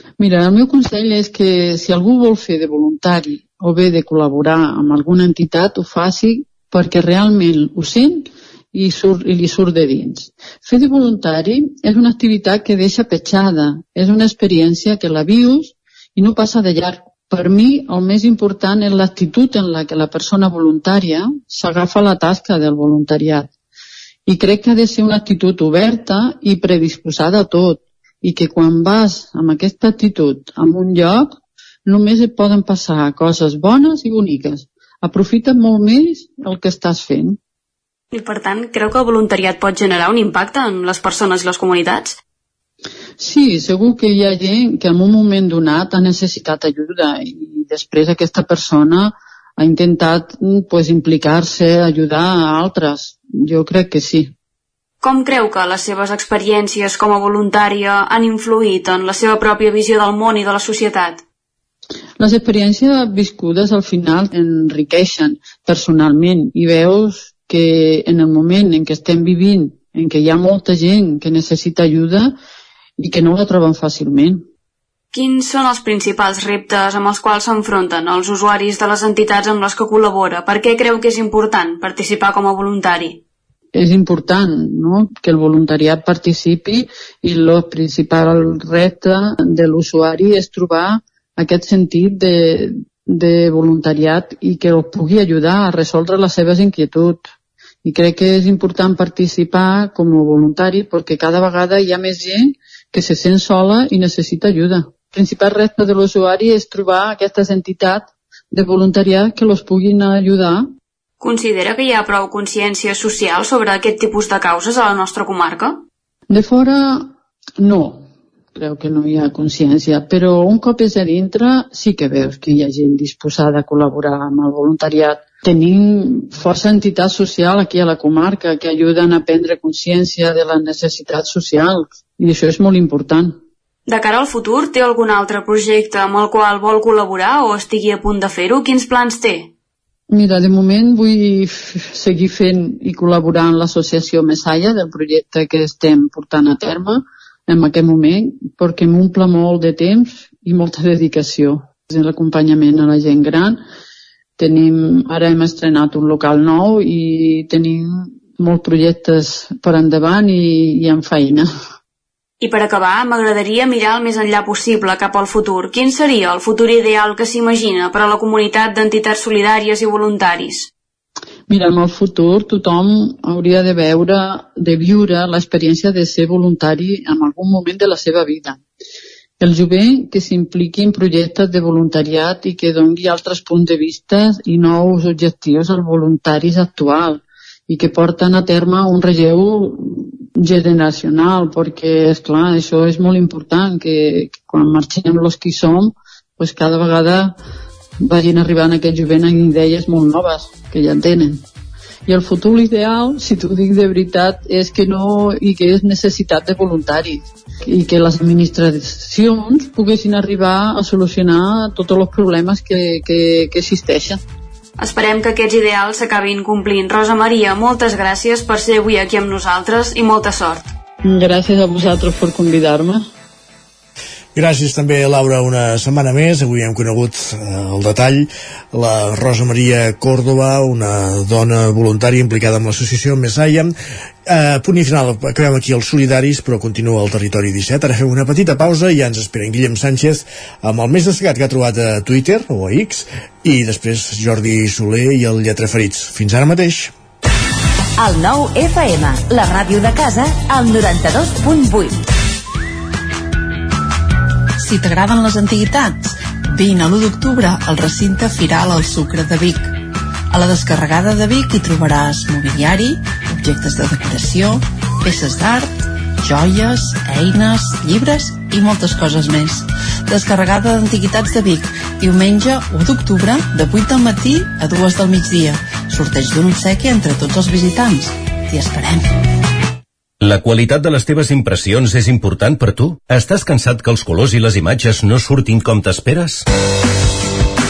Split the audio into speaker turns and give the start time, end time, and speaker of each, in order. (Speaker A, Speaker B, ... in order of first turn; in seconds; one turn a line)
Speaker A: 0.2-23.5
Speaker A: 24.3-31.4
Speaker A: 31.9-37.4
Speaker B: 38.1-42.2
Speaker A: 43.2-54.3
Speaker B: 55.0-61.2
Speaker A: 62.2-72.3
Speaker A: 73.0-74.4
Speaker B: 75.1-83.2
Speaker A: 83.7-97.2
Speaker A: 97.8-110.7
Speaker B: 111.2-115.8
Speaker A: 116.3-117.1
Speaker A: 117.6-133.3
Speaker B: 133.9-139.5
Speaker A: 140.1-153.6
Speaker A: 154.4-161.5
Speaker B: 162.4-170.7
Speaker A: 171.5-178.6
Speaker A: 179.4-197.3
Speaker A: 198.0-201.4
Speaker A: 202.1-214.2
Speaker B: 214.8-220.7
Speaker A: 221.0-223.0
Speaker C: 224.3-233.7
Speaker C: 234.2-246.9
Speaker D: 248.1-250.1
Speaker D: 250.9-251.5
Speaker E: 254.6-259.7
Speaker E: 260.3-279.0
Speaker F: 280.2-286.4